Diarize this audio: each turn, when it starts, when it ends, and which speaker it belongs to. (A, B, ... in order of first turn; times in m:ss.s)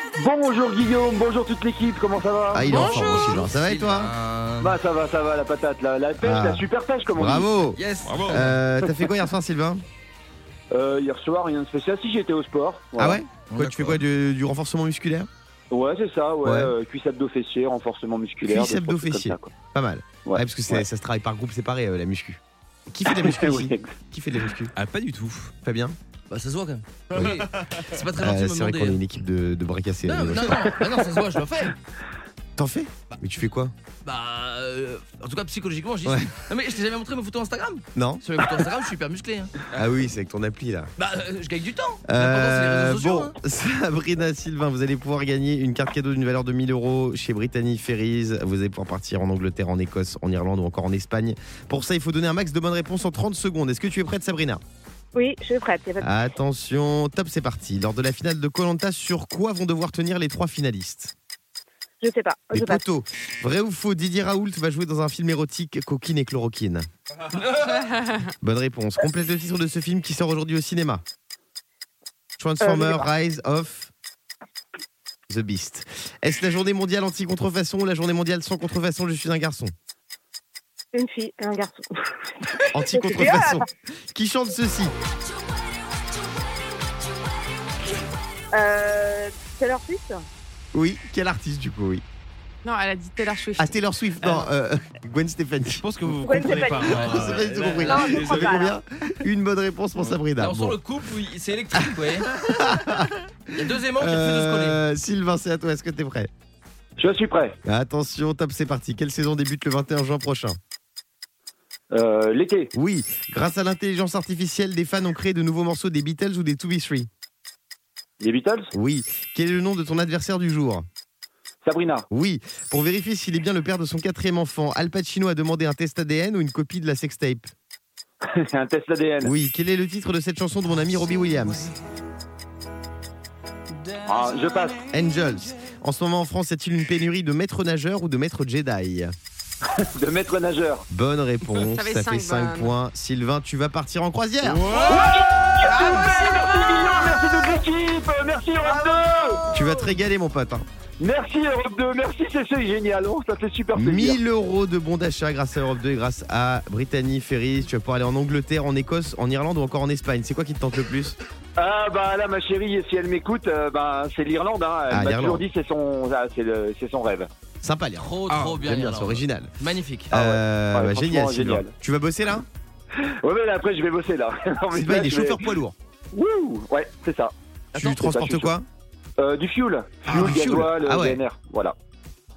0:00.2-0:02.6 A
0:02.5-0:04.1 B
0:02.6-0:03.3 C
0:02.6-0:04.8 D
0:04.6-0:07.5 A
0:06.2-0:09.8 B
0:07.8-0:08.5 D
0:08.1-0:08.4 E
0:10.7-0:13.2 A
0:13.0-0:15.3 B
0:13.5-0:14.0 D
0:15.7-0:19.5 A
0:16.4-0:16.7 B
0:18.4-0:24.7 B
0:20.2-0:20.8 A
0:23.1-0:23.9 A
0:24.8-0:25.5 E
0:25.6-0:26.0 B
0:26.3-0:29.0 D
0:27.1-0:27.5 B
0:27.1-0:27.9 E
0:28.2-0:30.7 B
0:30.0-0:31.8 D
0:32.6-0:33.7 B
0:34.0-0:39.5 D
0:36.0-0:36.3 B
0:37.9-0:38.4 B
0:39.7-0:40.9 B
0:41.0-0:43.4 D
0:42.0-0:54.6 B
0:55.1-0:56.1 F
0:56.0-1:01.1 B
1:02.0-1:02.8 F
1:02.5-1:06.9 B
1:07.3-1:07.8 D
1:07.8-1:08.3 C
1:08.4-1:11.0 B
1:12.4-1:13.9 B
1:12.6-1:13.0 F
1:15.3-1:19.7 B
1:20.9-1:23.6 F
1:22.7-1:24.9 B
1:28.5-1:30.2 F
1:30.7-1:32.0 B
1:32.6-1:33.8 C
1:33.6-1:35.8 B
1:35.7-1:38.7 E
1:36.2-1:37.0 F
1:36.8-1:40.8 B
1:36.9-1:37.4 D
1:37.8-1:38.8 F
1:40.4-1:42.3 D
1:41.8-1:46.3 B
1:43.5-1:44.8 D
1:47.0-1:47.6 A
1:47.6-1:50.6 B
1:51.9-1:52.7 A
1:52.7-1:57.1 B
1:58.2-1:58.7 A
1:58.7-2:00.9 B
2:01.6-2:02.0 A
2:02.1-2:07.5 B
2:08.2-2:09.3 A
2:09.2-2:11.7 B
2:14.0-2:14.8 A
2:14.9-2:19.1 B
2:19.8-2:20.8 A
2:20.9-2:24.7 B
2:21.6-2:22.7 C
2:24.5-2:24.9 E
2:24.7-2:27.3 C
2:24.9-2:29.4 A
2:29.5-2:30.6 B
2:31.0-2:34.2 A
2:33.7-2:41.2 B
2:41.6-2:47.3 A
2:44.9-2:45.4 B
2:47.6-2:49.5 B
2:48.0-2:50.1 D
2:48.3-2:48.6 E
2:50.1-2:51.7 A
2:50.1-2:52.5 B
2:53.2-2:55.5 A
2:54.7-2:55.8 B
2:56.1-2:58.5 A
2:57.7-2:58.7 B
2:59.2-3:01.8 A
3:00.0-3:01.2 B